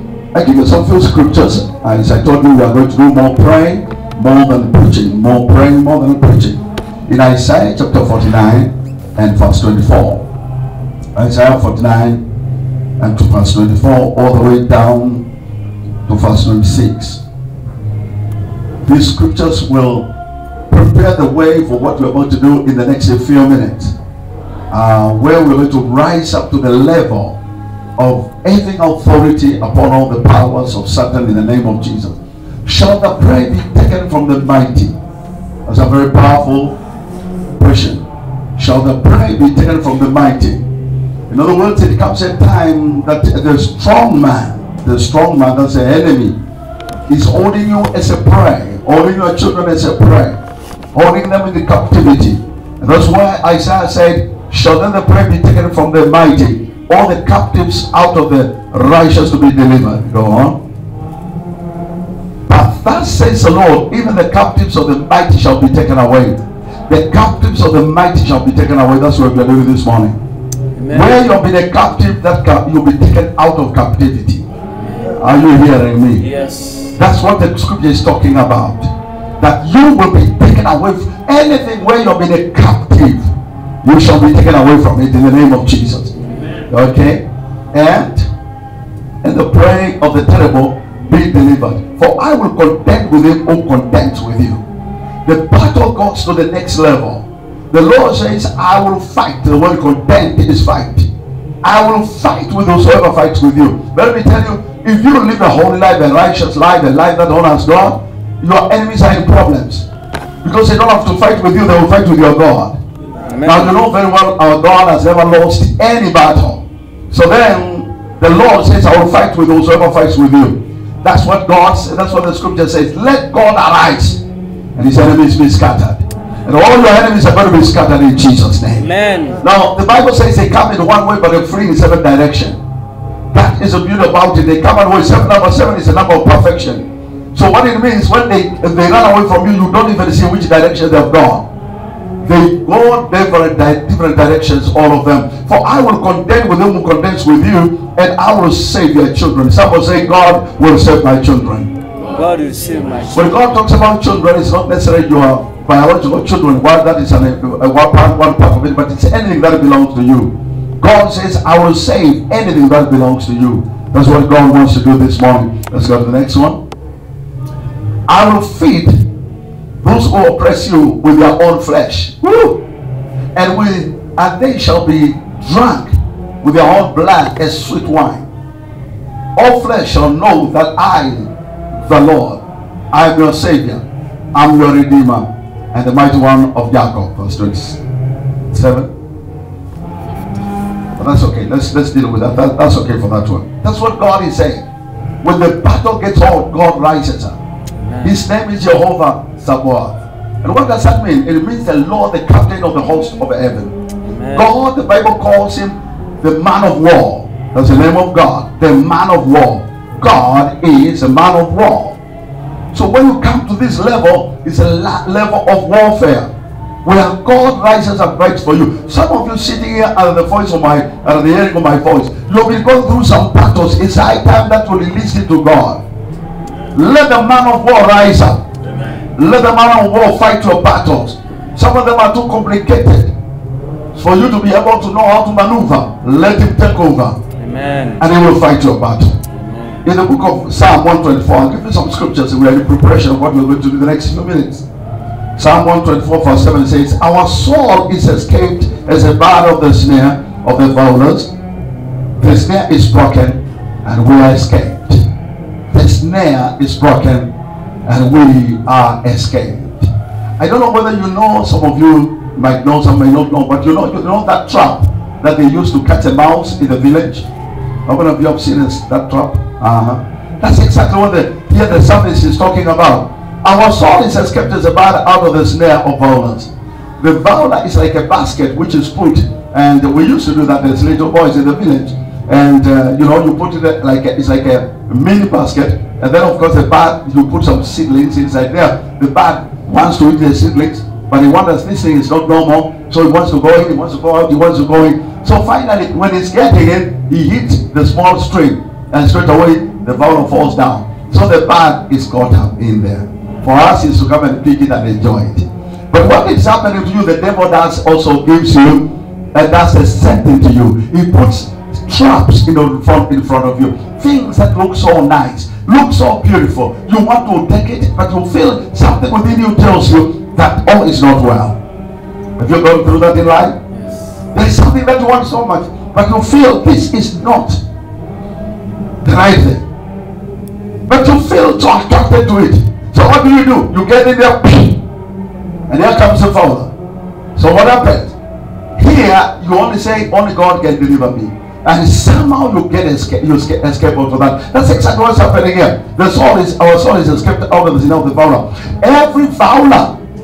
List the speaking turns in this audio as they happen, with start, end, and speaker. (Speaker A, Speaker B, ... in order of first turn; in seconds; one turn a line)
Speaker A: 0.3-10.2
Speaker A: 11.2-12.2
Speaker A: 13.0-15.3
Speaker A: 16.1-17.2
Speaker A: 18.9-20.1
Speaker A: 20.7-23.9
Speaker A: 24.7-27.4
Speaker A: 28.0-35.0
Speaker A: 35.7-36.8
Speaker A: 37.6-38.0
Speaker A: 38.6-40.6
Speaker A: 41.3-46.4
Speaker A: 47.1-50.4
Speaker A: 50.9-60.6
Speaker A: 62.5-66.4
Speaker A: 66.9-70.2
Speaker B: 70.8-71.2
Speaker A: 70.9-74.5
Speaker A: 75.2-76.2
Speaker B: 76.2-76.9
Speaker A: 77.0-78.9
Speaker A: 79.4-83.2
Speaker A: 83.8-86.1
Speaker A: 86.7-88.3
Speaker A: 89.2-94.6
Speaker A: 95.2-101.1
Speaker A: 101.6-109.9
Speaker A: 110.4-112.8
Speaker B: 113.3-113.7
Speaker A: 113.4-124.2
Speaker A: 124.8-128.9
Speaker B: 128.8-129.4
Speaker A: 129.4-132.6
Speaker A: 133.3-141.5
Speaker A: 142.2-151.7
Speaker B: 152.1-153.4
Speaker A: 153.1-166.6
Speaker A: 168.1-169.0
Speaker A: 169.8-172.6
Speaker A: 173.3-175.9
Speaker A: 176.4-178.3
Speaker A: 179.4-181.3
Speaker A: 181.8-183.8
Speaker A: 184.3-187.8
Speaker A: 188.5-188.9
Speaker A: 191.0-194.7
Speaker A: 195.2-197.4
Speaker A: 198.0-203.8
Speaker B: 204.2-204.5
Speaker A: 204.3-212.0
Speaker A: 212.7-216.3
Speaker A: 216.8-225.8
Speaker A: 226.8-228.4
Speaker A: 229.2-233.1
Speaker A: 233.9-237.2
Speaker B: 237.4-238.0
Speaker A: 238.0-239.2
Speaker B: 239.4-239.8
Speaker A: 239.8-244.6
Speaker A: 245.4-251.3
Speaker A: 252.2-255.0
Speaker A: 255.7-257.3
Speaker A: 257.9-267.3
Speaker A: 267.9-276.5
Speaker A: 277.0-321.6
Speaker A: 322.4-323.6
Speaker A: 324.3-327.6
Speaker A: 329.0-329.7
Speaker A: 330.9-334.8
Speaker A: 335.7-336.7
Speaker A: 337.4-338.1
Speaker A: 338.8-350.0